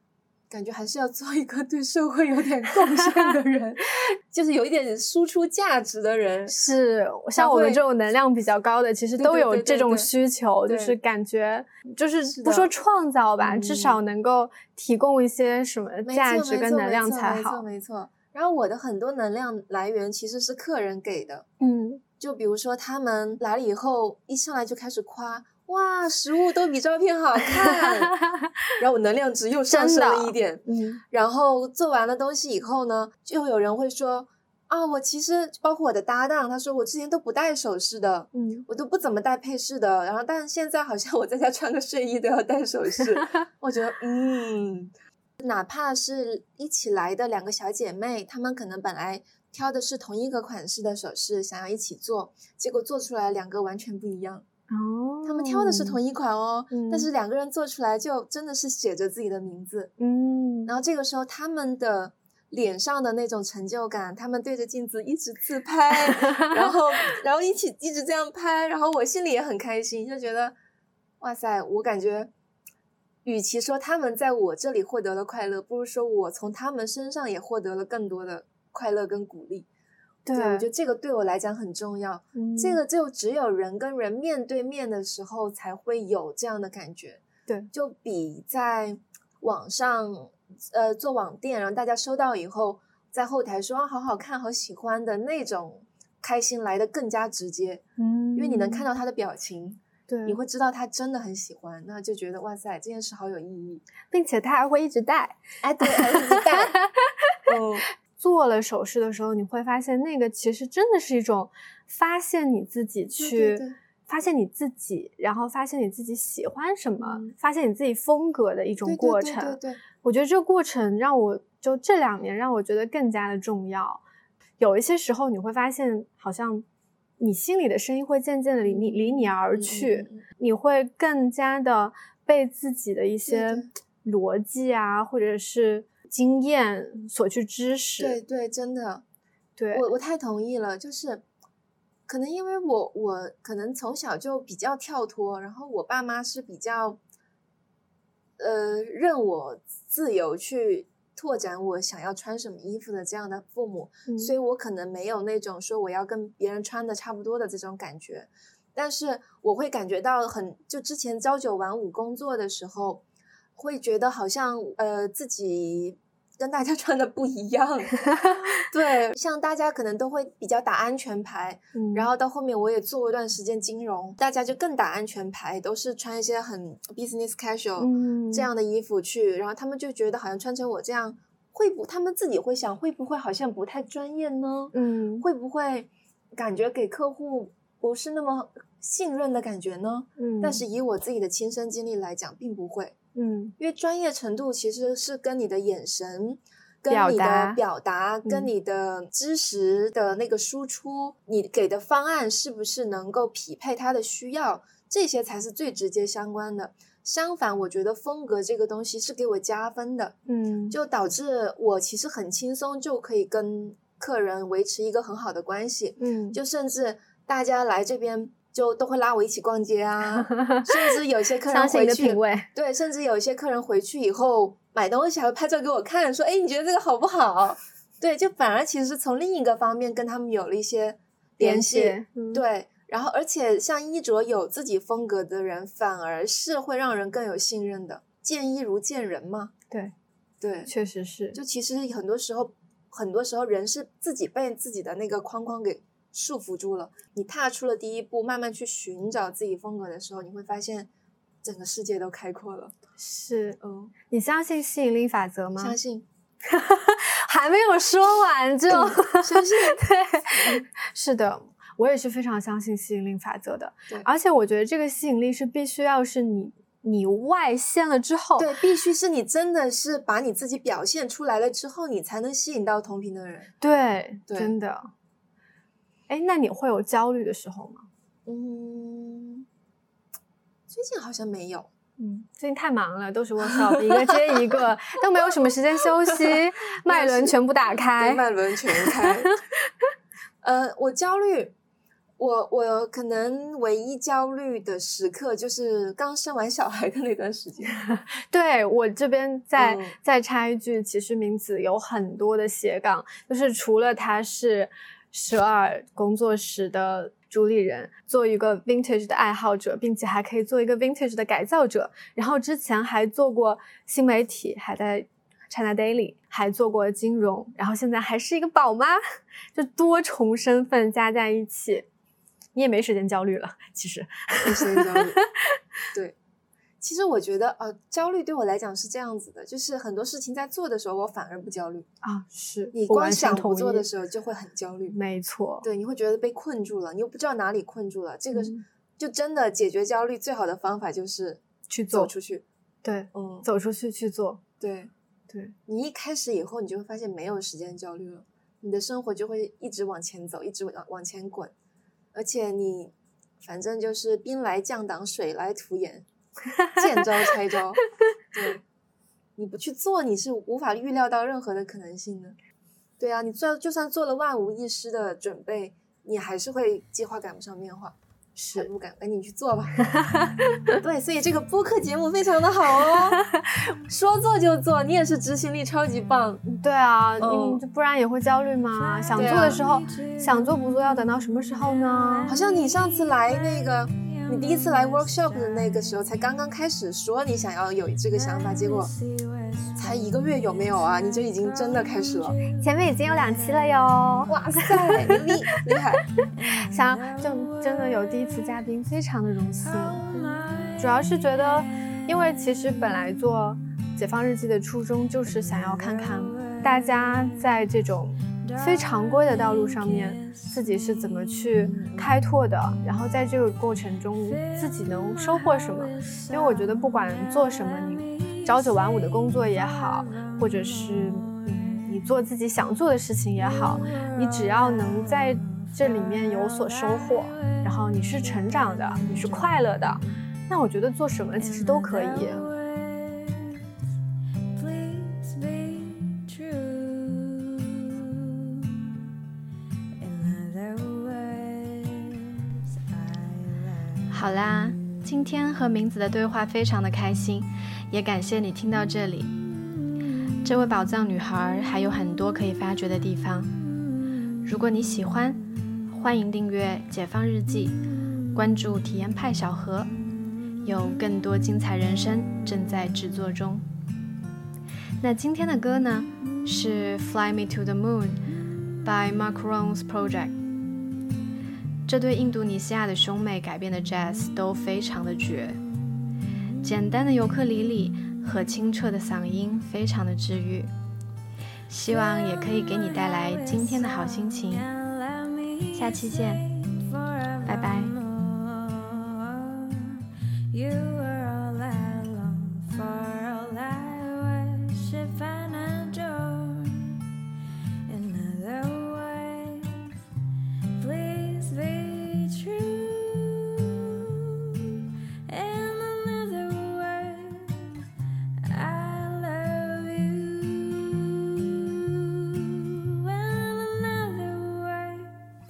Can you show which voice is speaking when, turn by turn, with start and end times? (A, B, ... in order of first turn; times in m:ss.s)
0:00.5-0:06.6 A
0:06.5-0:17.6 B
0:07.4-0:07.8 A
0:09.2-0:10.1 A
0:10.6-0:11.0 A
0:12.2-0:12.7 A
0:13.4-0:14.0 A
0:16.0-0:21.4 A
0:21.6-0:22.0 B
0:22.2-0:28.2 A
0:27.6-0:27.9 B
0:28.8-0:54.4 A
0:29.7-0:31.0 B
0:38.3-0:38.6 B
0:54.7-0:56.0 B
0:55.2-0:59.9 A
0:56.7-0:57.1 B
1:00.0-1:00.7 B
1:00.6-1:10.6 A
1:06.3-1:06.6 B
1:11.2-1:12.3 A
1:13.2-1:19.7 A
1:20.2-1:20.6 B
1:20.4-1:37.8 A
1:22.4-1:22.8 B
1:38.0-1:38.8 B
1:38.4-1:43.8 A
1:40.1-1:40.4 B
1:44.1-1:47.4 B
1:45.6-1:46.8 A
1:47.4-1:47.9 A
1:48.1-2:04.0 B
1:53.2-1:53.8 A
1:57.0-1:57.3 A
1:58.9-1:59.8 A
2:04.6-2:06.6 B
2:07.2-2:18.2 B
2:08.6-2:10.2 A
2:13.3-2:13.7 A
2:18.0-2:19.0 A
2:19.6-2:19.8 B
2:19.7-2:21.2 A
2:22.1-2:27.0 A
2:28.4-2:43.0 A
2:34.1-2:34.3 B
2:43.6-3:13.0 A
2:51.7-2:52.1 B
2:57.8-2:58.5 B
3:04.7-3:05.2 B
3:10.2-3:10.6 B
3:13.1-3:13.6 B
3:13.6-3:30.2 A
3:16.9-3:17.6 B
3:30.3-3:30.8 B
3:30.7-3:59.5 A
3:36.0-3:36.4 B
3:40.2-3:42.5 B
3:51.4-3:52.4 B
4:00.4-4:00.7 A
4:00.6-4:01.4 B
4:01.3-4:10.9 A
4:11.4-4:12.7 A
4:13.0-4:13.6 B
4:13.6-4:13.9 A
4:14.1-4:15.8 B
4:15.6-4:16.1 A
4:16.4-4:28.5 B
4:18.7-4:19.8 A
4:28.4-4:33.5 A
4:33.6-4:34.9 B
4:34.3-4:34.5 A
4:36.1-4:37.9 B
4:38.3-4:39.4 A
4:40.7-4:41.7 A
4:42.0-4:49.4 B
4:43.5-4:44.1 A
4:46.0-4:46.4 A
4:46.9-4:47.4 A
4:47.9-4:49.3 A
4:50.4-4:51.5 A
4:52.2-4:57.8 A
4:58.1-5:19.0 B
4:59.6-4:59.9 A
5:19.5-5:21.9 B
5:22.6-5:25.6 B
5:24.4-5:25.2 A
5:26.8-5:31.9 A
5:32.0-5:33.9 B
5:32.7-5:35.0 A
5:34.9-5:35.7 B
5:35.6-5:42.4 A
5:38.3-5:38.6 B
5:41.7-5:42.1 B
5:42.8-5:44.4 B
5:43.1-5:43.4 A
5:44.6-5:44.9 A
5:45.6-5:51.5 A
5:52.1-5:56.1 A
5:56.7-5:57.8 A
5:58.3-5:58.6 A
5:59.4-6:02.4 A
6:03.0-6:08.0 A
6:08.4-6:08.7 B
6:08.5-6:09.8 A
6:10.0-6:10.5 B
6:10.8-6:16.4 A
6:16.4-6:22.4 B
6:17.2-6:17.6 A
6:19.1-6:19.6 A
6:22.2-6:28.9 A
6:29.7-6:32.4 A
6:32.5-6:35.2 B
6:34.3-6:36.0 A
6:36.4-7:12.5 B
6:51.6-6:52.1 A
7:15.0-7:15.5 C
7:16.3-7:16.6 C
7:24.1-7:29.4 D
7:30.4-7:33.5 D
7:34.4-7:37.8 D
7:38.3-7:39.9 D
7:40.6-7:43.6 D
7:45.0-7:48.2 D
7:48.8-7:50.4 D
7:51.9-7:55.6 D
7:56.6-8:00.7 D
8:01.7-8:04.7 D
8:05.7-8:06.6 D
8:07.4-8:08.0 D
8:10.5-8:17.0 C
8:17.9-8:19.7 C
8:20.8-8:23.5 C
8:25.3-8:27.7 C
8:28.4-8:30.9 C
8:33.1-8:35.1 C